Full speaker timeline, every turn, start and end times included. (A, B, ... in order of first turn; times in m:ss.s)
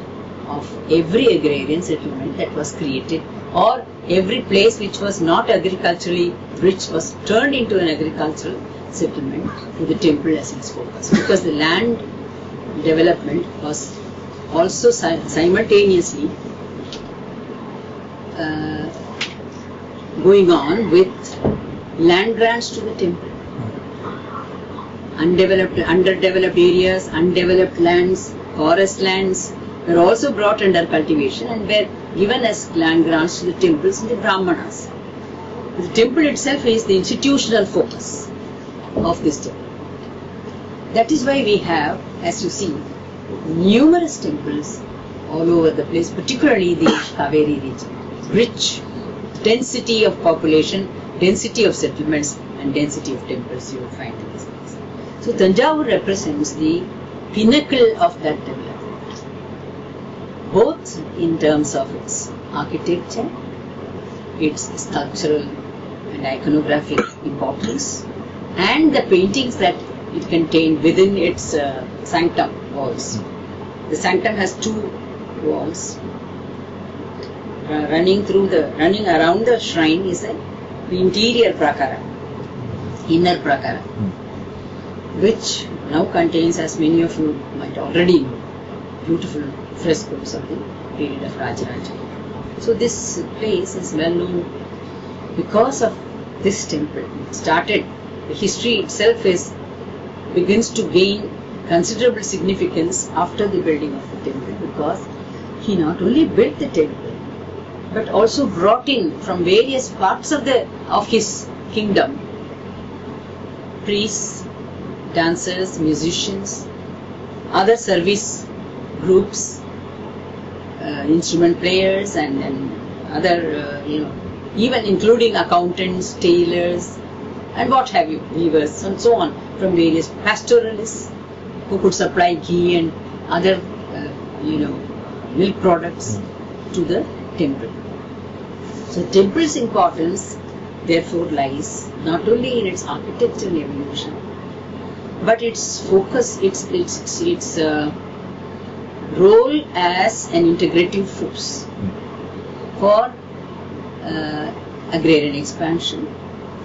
0:00.5-0:12.0 A
0:12.7-0:14.0 A
0:14.5-0:16.3 A
0:18.3-0:19.0 A
0:20.2-0:21.4 A
0:22.0-0:23.3 A
0:25.2-0:34.9 A
0:35.8-0:38.3 A
0:39.0-0:39.6 A
0:40.9-0:42.8 A
0:43.4-0:48.8 A
0:49.4-0:59.0 A
1:00.5-1:03.3 A
1:04.4-1:05.5 A
1:06.1-1:08.0 A
1:08.6-1:13.2 A
1:13.9-1:16.0 A
1:17.6-1:22.0 A
1:23.1-1:23.9 A
1:25.1-1:28.4 A
1:29.0-1:32.0 A
1:32.6-1:34.5 A
1:35.3-1:39.5 A
1:40.3-1:45.0 A
1:45.6-1:47.2 A
1:47.9-1:52.2 A
1:53.8-1:54.4 A
1:55.1-1:56.6 A
1:57.5-1:59.6 A
2:00.8-2:07.0 A
2:07.5-2:11.1 A
2:11.7-2:16.2 A
2:16.7-2:17.7 A
2:18.9-2:24.2 A
2:25.2-2:27.9 A
2:29.1-2:31.7 A
2:32.8-2:33.1 A
2:34.0-2:36.1 A